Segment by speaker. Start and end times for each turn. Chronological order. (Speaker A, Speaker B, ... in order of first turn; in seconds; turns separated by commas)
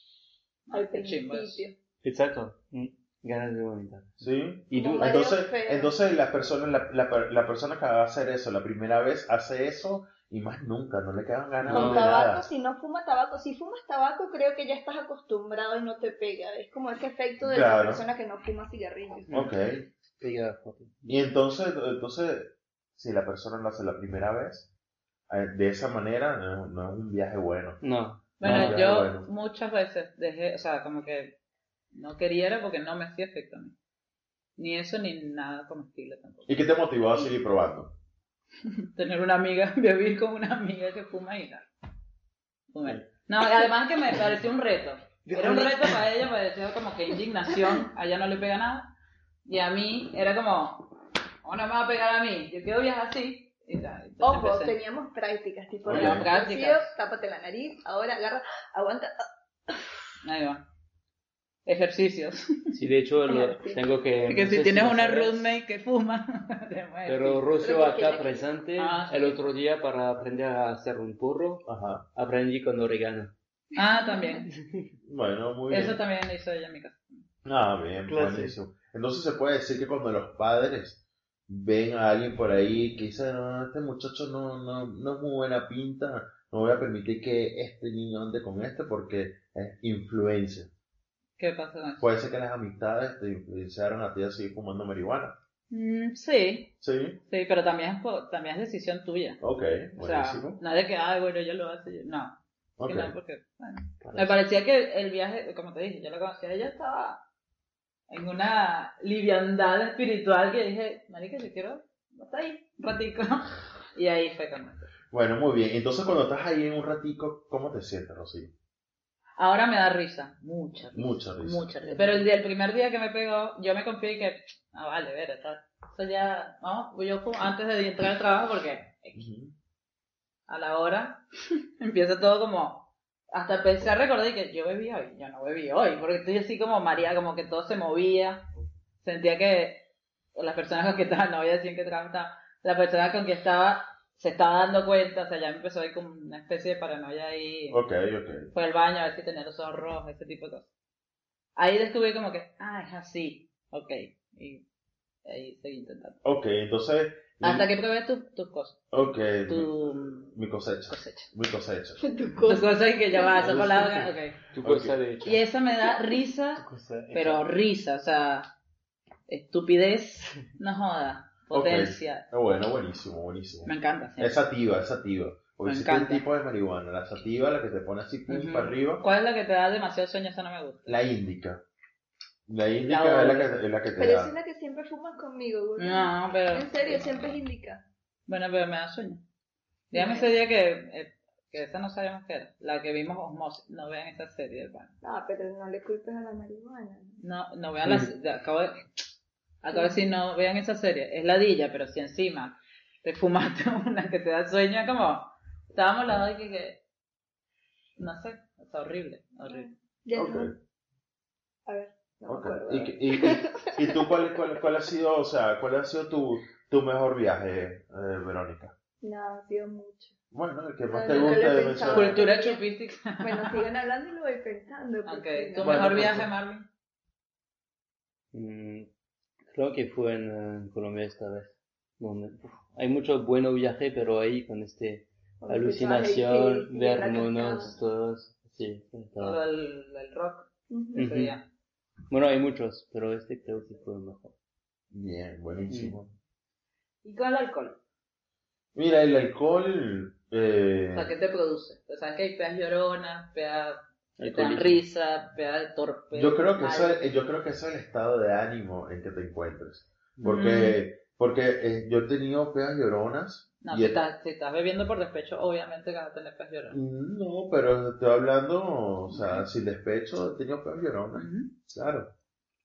Speaker A: 0.7-1.6, Speaker B: 0.7-1.8, Speaker C: 2.0-5.1, Speaker D: 4.2-12.5, Speaker B: 4.7-5.9, Speaker C: 11.6-12.2, Speaker B: 11.7-19.3, Speaker D: 17.4-18.0, Speaker C: 19.3-19.6, Speaker D: 19.3-19.9, Speaker C: 20.2-21.2, Speaker D: 21.1-24.7, Speaker D: 25.3-27.8, Speaker C: 27.8-28.8, Speaker A: 28.4-31.4, Speaker D: 28.4-29.3, Speaker A: 31.9-33.7, Speaker A: 34.6-36.6, Speaker D: 36.5-37.9, Speaker A: 38.9-41.6, Speaker A: 42.7-48.9, Speaker C: 45.2-46.0, Speaker A: 49.5-54.8, Speaker B: 54.2-59.9, Speaker D: 55.9-56.3, Speaker A: 55.9-56.9, Speaker A: 60.2-60.6, Speaker A: 61.6-62.7, Speaker C: 62.7-65.5, Speaker B: 63.3-63.9, Speaker A: 64.3-67.5, Speaker C: 67.0-73.3, Speaker B: 67.6-68.4, Speaker A: 68.8-69.4, Speaker D: 71.6-72.0, Speaker A: 73.7-74.5, Speaker B: 74.0-74.4, Speaker C: 74.5-74.9, Speaker D: 75.0-76.0, Speaker A: 75.7-77.2, Speaker D: 77.4-90.7, Speaker C: 78.1-78.6, Speaker A: 91.4-92.1, Speaker D: 92.0-95.3, Speaker A: 95.7-96.7, Speaker D: 96.8-97.2, Speaker A: 97.2-99.4, Speaker D: 99.4-100.6, Speaker A: 100.0-107.2, Speaker D: 102.8-103.1, Speaker C: 104.0-104.3, Speaker A: 108.1-114.9, Speaker D: 115.1-118.5, Speaker A: 119.4-129.2, Speaker D: 120.9-121.7, Speaker D: 129.1-129.5, Speaker A: 130.5-138.4, Speaker A: 139.0-147.8, Speaker D: 147.7-148.5, Speaker A: 148.5-150.7, Speaker A: 151.6-154.6, Speaker A: 155.2-156.2, Speaker D: 156.2-157.7, Speaker A: 157.4-160.3, Speaker D: 158.9-162.0, Speaker A: 160.9-161.3, Speaker B: 162.0-163.5, Speaker A: 162.4-164.4, Speaker C: 163.4-165.4, Speaker D: 163.4-163.8, Speaker D: 164.6-165.0, Speaker A: 165.2-166.6, Speaker C: 166.6-167.4, Speaker A: 167.1-168.5, Speaker A: 169.3-172.2, Speaker D: 171.5-179.0, Speaker A: 173.6-174.3, Speaker A: 175.6-176.2, Speaker A: 178.3-180.9, Speaker D: 180.9-181.6, Speaker D: 182.5-184.3, Speaker A: 182.9-183.5, Speaker B: 184.0-187.8, Speaker A: 185.8-187.4, Speaker A: 188.3-189.2, Speaker A: 189.9-194.9, Speaker B: 189.9-190.3, Speaker B: 195.0-197.2, Speaker A: 197.2-198.8, Speaker A: 199.6-206.8, Speaker A: 208.0-209.7, Speaker B: 209.5-210.5, Speaker D: 210.1-210.5, Speaker B: 211.7-214.0, Speaker D: 212.3-218.7, Speaker B: 219.0-220.1, Speaker D: 220.3-222.2, Speaker B: 220.9-222.6, Speaker A: 221.1-223.7, Speaker B: 223.2-226.1, Speaker A: 225.0-226.7, Speaker C: 225.6-226.3, Speaker C: 228.3-228.9, Speaker C: 229.5-239.4, Speaker B: 235.4-237.8, Speaker A: 239.2-241.4, Speaker B: 240.7-241.0, Speaker C: 240.9-241.3, Speaker C: 242.1-244.3, Speaker D: 244.9-246.1, Speaker C: 245.7-246.0, Speaker A: 247.0-247.8, Speaker D: 248.7-251.1, Speaker A: 250.9-257.1, Speaker C: 254.2-254.8, Speaker D: 256.1-264.0, Speaker A: 260.2-260.8, Speaker A: 263.6-266.8, Speaker D: 266.7-272.1, Speaker A: 269.1-269.4, Speaker A: 271.1-271.5